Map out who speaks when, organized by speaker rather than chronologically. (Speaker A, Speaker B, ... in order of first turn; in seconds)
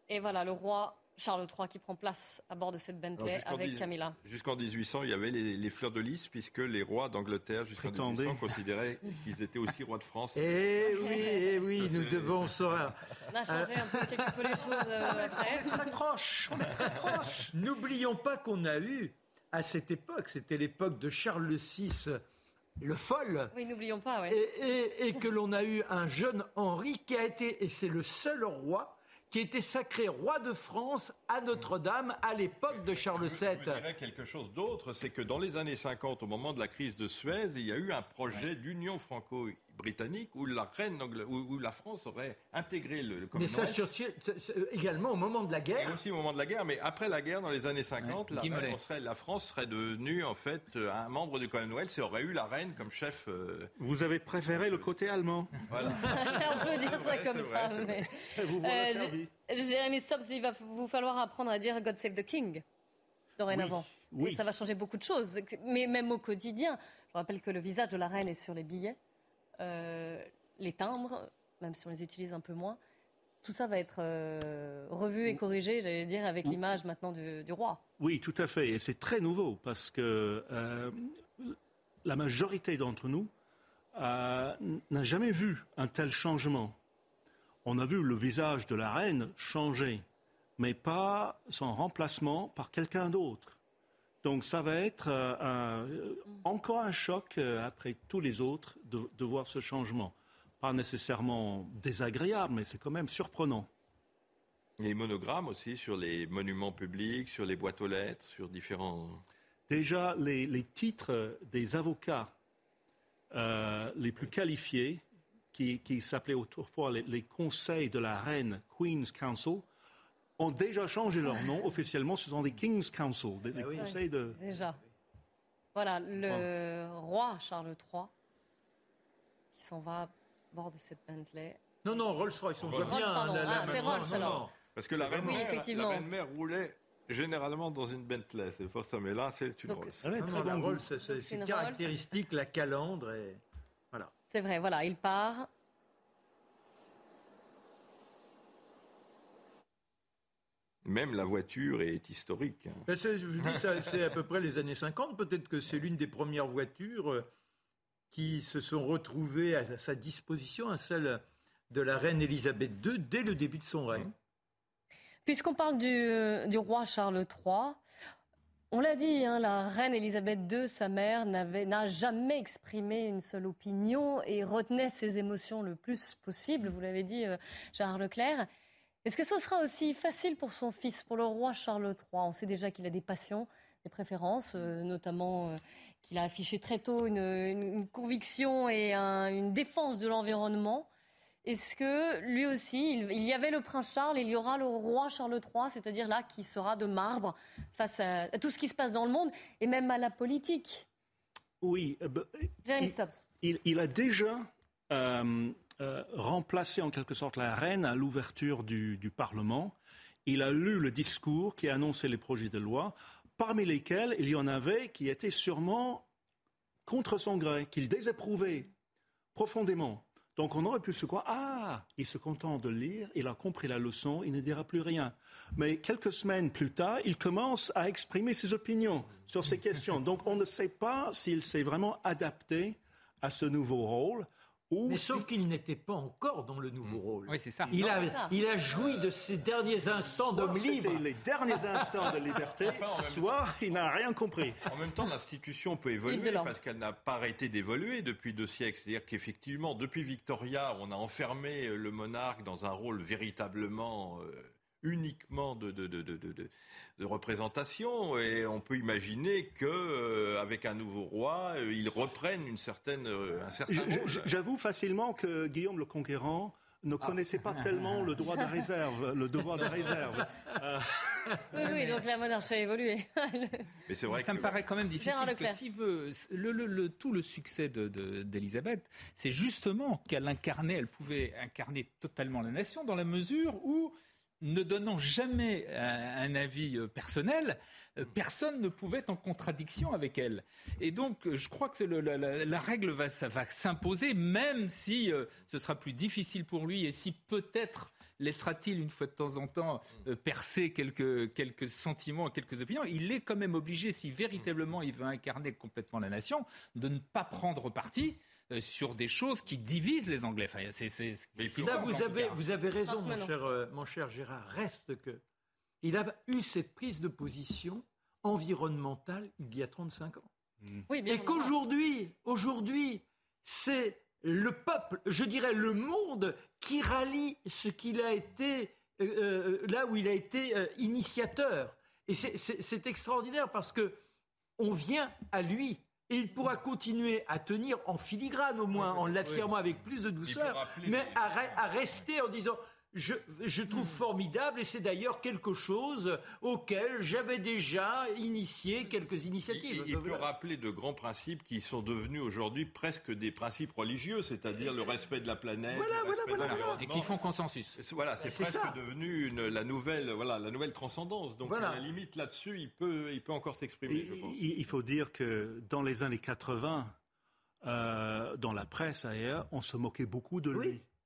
Speaker A: 0.1-4.2, 11.0-11.4, 13.3-16.0, 23.5-24.4, 56.0-62.6, 63.4-69.0, 69.6-72.8, 73.4-77.8, 123.8-124.8, 125.8-128.1, 129.5-131.6, 132.8-134.4, 135.2-136.1, 139.7-140.0, 141.0-141.9, 144.3-145.5, 165.3-167.8, 168.7-178.5, 179.1-190.9, 191.4-200.9, 202.7-203.2, 237.9-238.3, 246.1-246.5, 271.5-273.7, 275.0-275.6, 312.9-313.3, 320.9-321.5
Speaker B: 3.2-11.3, 11.8-12.9, 32.7-43.9, 45.8-53.7, 54.5-54.9, 55.7-58.1, 104.8-109.2, 132.6-140.0, 150.8-152.9, 153.4-153.9, 242.6-243.4, 244.7-264.3, 273.9-274.6, 311.4-312.1, 340.2-341.6, 349.5-357.2, 357.8-364.4
Speaker C: 7.8-8.6, 15.1-17.5, 53.8-56.0, 58.3-59.3, 63.5-64.4, 78.0-83.3, 83.9-86.8, 87.7-90.0, 90.6-93.6, 94.2-103.7, 109.7-112.3, 113.3-119.7, 120.4-124.4, 135.1-135.4, 140.0-140.9, 201.6-209.8, 210.3-216.1, 216.9-218.7, 219.3-235.3, 239.9-244.7, 263.7-271.7, 363.9-366.9, 367.6-370.8
Speaker D: 10.3-15.1, 16.8-22.2, 22.8-23.5, 24.3-33.9, 43.3-46.0, 123.5-124.0, 131.8-135.5, 140.2-144.1, 152.9-157.3, 158.1-164.1, 234.9-241.1, 311.5-315.2, 315.8-320.3, 321.1-334.0, 334.6-350.3, 355.7-356.9, 358.2-358.8, 361.4-361.9
Speaker E: 48.0-48.8, 237.3-237.8, 267.5-268.2, 274.1-312.4, 338.8-339.5, 356.4-357.8